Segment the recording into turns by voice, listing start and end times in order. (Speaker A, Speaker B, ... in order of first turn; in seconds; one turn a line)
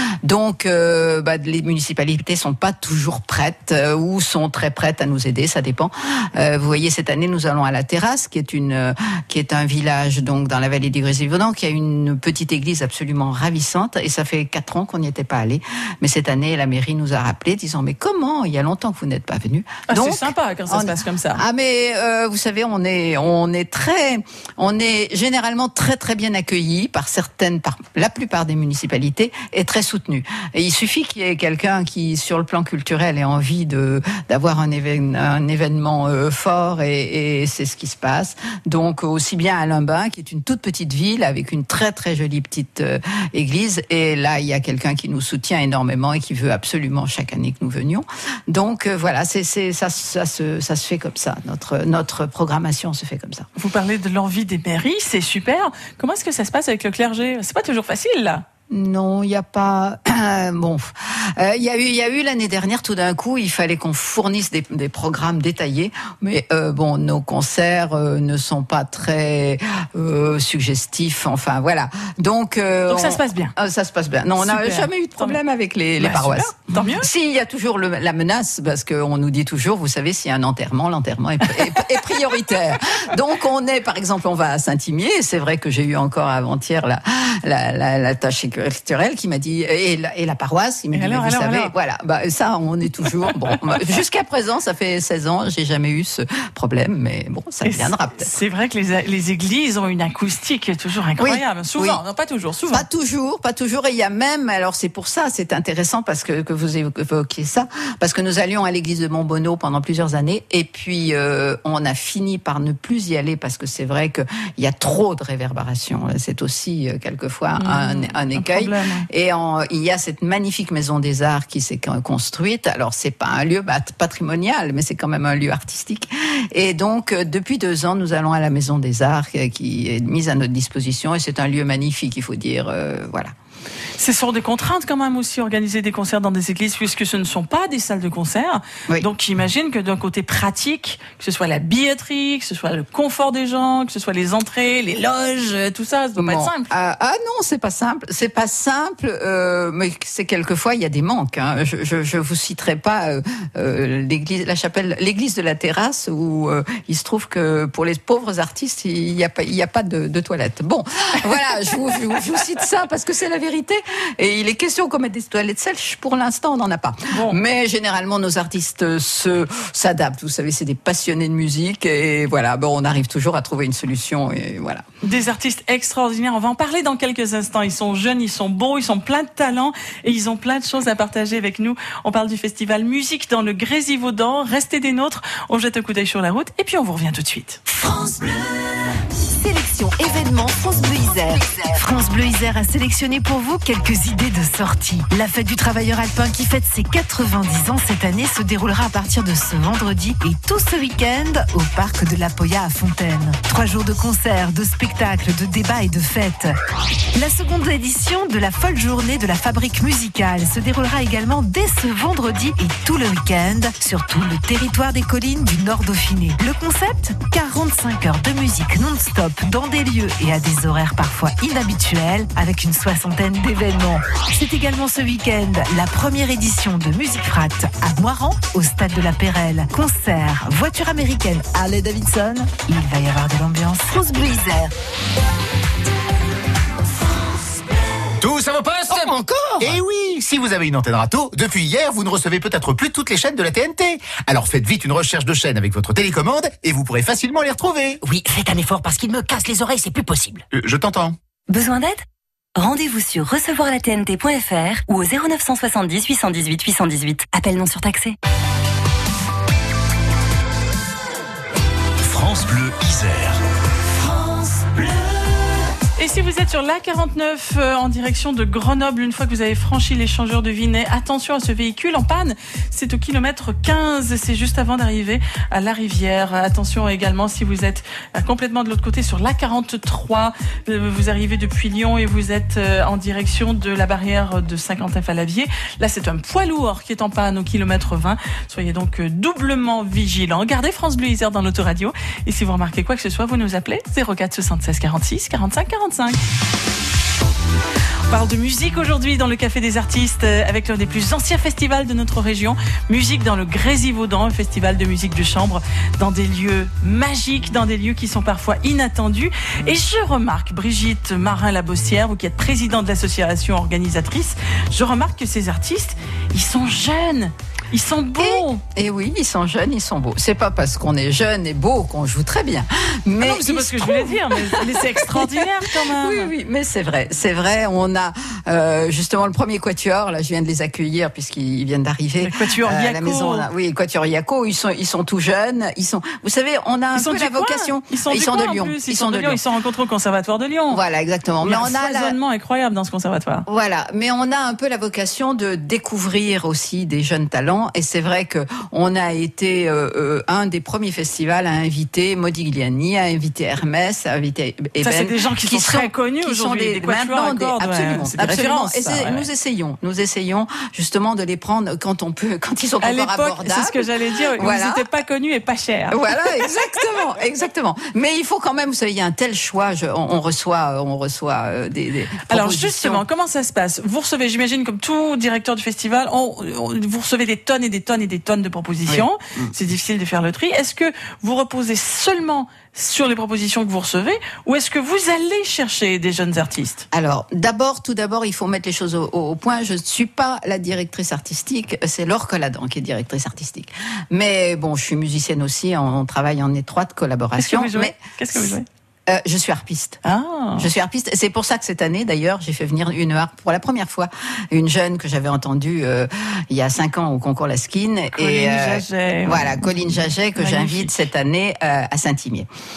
Speaker A: 0.2-53.5
Speaker B: 19.9-21.4
Speaker B: 53.6-58.4
Speaker A: 58.7-98.3
Speaker B: 72.9-73.5
Speaker B: 74.4-75.4
Speaker B: 76.0-77.1
Speaker B: 90.9-91.7
Speaker B: 97.7-102.9
Speaker A: 101.2-102.0
Speaker A: 102.7-133.3
Speaker B: 117.6-119.1
Speaker B: 134.0-146.7
Speaker A: 146.2-174.8
Speaker B: 167.1-167.4
Speaker B: 175.0-187.6
Speaker C: 187.7-206.5
Speaker C: 207.1-234.7
Speaker D: 238.2-248.0
Speaker E: 248.0-250.4
Speaker D: 250.5-251.2
Speaker F: 251.5-258.2
Speaker D: 262.1-263.4
Speaker B: 266.0-296.2
Speaker B: 298.1-318.6
Speaker A: 318.2-325.3
Speaker B: 323.2-326.3
Speaker A: 326.0-339.4
Speaker B: 332.2-333.5
Speaker B: 336.9-340.8
Speaker A: 340.7-342.1
Speaker B: 341.4-343.4
Speaker A: 343.5-364.9
Speaker B: 354.8-359.3
Speaker B: 362.8-366.6
Speaker A: 365.9-373.0
Speaker B: 372.3-386.9
Speaker A: 378.9-379.5
Speaker A: 386.9-397.9
Speaker B: 397.4-398.6
Speaker A: 399.1-400.0
Speaker B: 400.1-400.7
Speaker A: 400.6-412.5
Speaker B: 408.1-410.9